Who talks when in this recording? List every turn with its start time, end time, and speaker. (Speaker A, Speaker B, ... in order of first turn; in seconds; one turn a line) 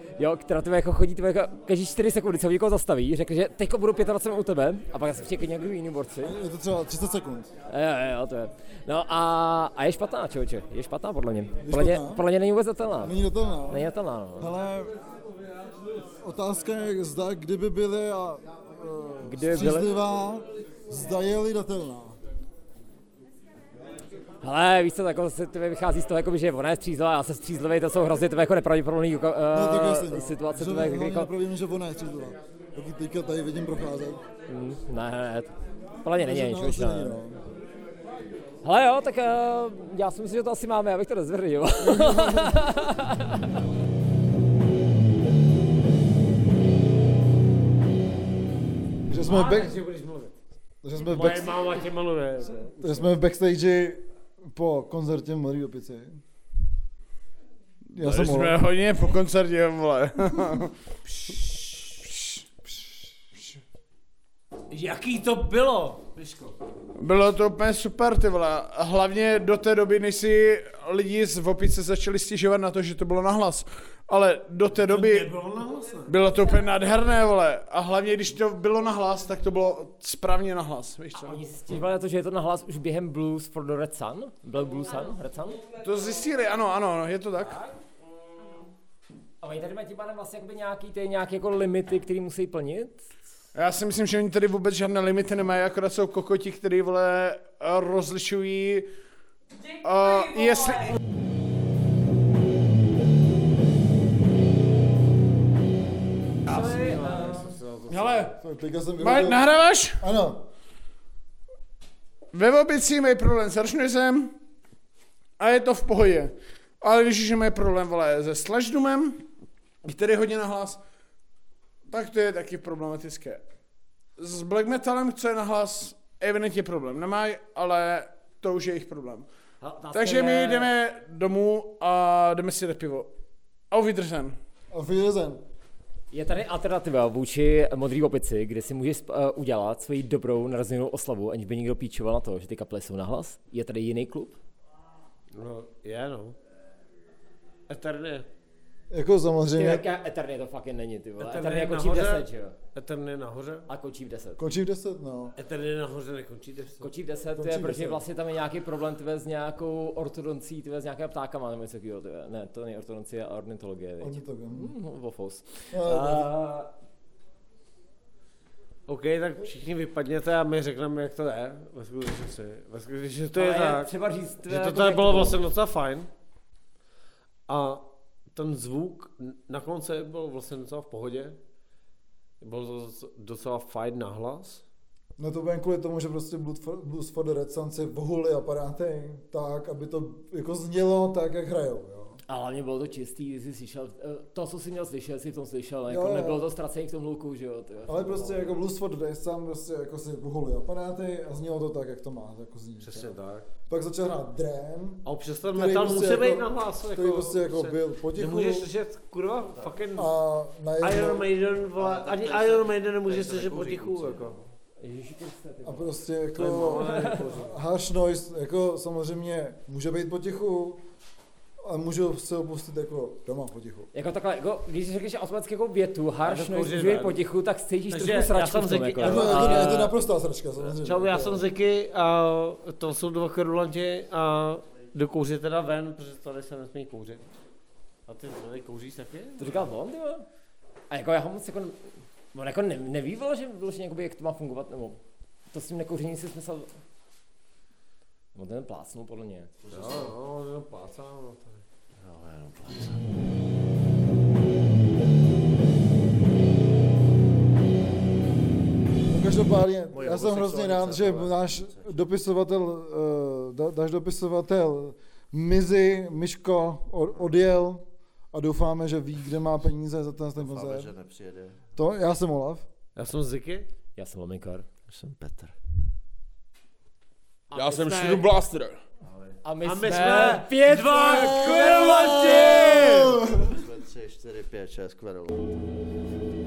Speaker A: 0.2-6.4
Speaker B: 6.2-7.5
Speaker A: 7.7-13.2
Speaker B: 11.6-12.2
Speaker B: 13.0-13.9
Speaker A: 13.7-14.5
Speaker B: 14.4-14.9
Speaker B: 16.2-22.2
Speaker A: 19.3-19.9
Speaker A: 24.4-31.3
Speaker B: 29.5-34.2
Speaker A: 34.5-35.5
Speaker A: 36.0-37.2
Speaker B: 36.1-37.4
Speaker A: 38.6-43.5
Speaker B: 41.8-43.0
Speaker B: 49.1-49.8
Speaker C: 49.1-50.3
Speaker B: 50.8-51.6
Speaker C: 51.0-53.1
Speaker B: 52.8-56.2
Speaker B: 58.0-58.6
Speaker D: 58.0-60.7
Speaker C: 61.2-61.9
Speaker D: 62.0-62.4
Speaker B: 62.7-63.6
Speaker C: 64.7-66.5
Speaker D: 67.0-75.3
Speaker C: 74.8-76.1
Speaker D: 76.1-81.4
Speaker A: 81.2-85.7
Speaker D: 85.8-87.6
Speaker A: 87.4-87.7
Speaker A: 89.4-93.0
Speaker D: 93.5-98.9
Speaker D: 99.8-101.0
Speaker A: 106.5-107.5
Speaker C: 106.5-108.3
Speaker D: 107.9-108.3
Speaker B: 108.4-109.4
Speaker D: 109.0-110.0
Speaker B: 110.0-110.4
Speaker D: 112.3-114.3
Speaker D: 115.4-119.2
Speaker D: 119.8-120.8
Speaker D: 121.9-123.4
Speaker D: 124.2-129.3
Speaker A: 129.6-130.7
Speaker D: 129.9-133.1
Speaker D: 133.7-134.4
Speaker B: 134.7-135.4
Speaker A: 136.1-144.4
Speaker C: 145.3-146.4
Speaker C: 147.7-148.3
Speaker B: 148.9-149.9
Speaker A: 149.6-152.6
Speaker C: 151.2-153.7
Speaker A: 153.7-154.4
Speaker B: 154.4-155.3
Speaker C: 155.4-156.9
Speaker A: 156.8-166.7
Speaker B: 157.3-158.1
Speaker B: 164.0-164.7
Speaker B: 165.7-166.3
Speaker C: 168.9-173.9
Speaker A: 173.3-175.4
Speaker C: 174.5-176.1
Speaker C: 177.5-181.4
Speaker C: 182.4-184.6
Speaker B: 185.2-192.2
Speaker A: 192.3-198.6
Speaker B: 195.9-196.5
Speaker B: 197.9-203.2
Speaker C: 202.8-203.5
Speaker B: 203.7-208.7
Speaker C: 205.1-210.1
Speaker B: 210.0-211.3
Speaker C: 210.8-214.4
Speaker E: 211.7-214.4
Speaker A: 214.8-215.9
Speaker B: 215.7-220.8
Speaker C: 216.4-217.5
Speaker A: 216.7-217.2
Speaker B: 221.6-223.9
Speaker A: 223.9-229.9
Speaker C: 226.2-227.2
Speaker C: 227.9-229.9
Speaker B: 229.0-231.4
Speaker C: 230.6-237.2
Speaker C: 238.1-239.7
Speaker A: 239.4-240.3
Speaker A: 240.9-241.8
Speaker A: 242.3-245.0
Speaker A: 245.5-246.7
Speaker A: 248.3-249.5
Speaker E: 249.7-250.1
Speaker C: 249.7-251.6
Speaker E: 252.0-253.0
Speaker B: 259.1-270.9
Speaker E: 259.9-261.9
Speaker E: 270.4-271.6
Speaker B: 271.8-272.7
Speaker C: 273.0-273.7
Speaker A: 274.0-274.7
Speaker E: 274.9-275.5
Speaker A: 277.5-278.3
Speaker D: 277.6-278.8
Speaker E: 279.1-279.4
Speaker A: 279.4-283.1
Speaker C: 279.6-283.2
Speaker B: 282.8-283.5
Speaker E: 283.4-285.6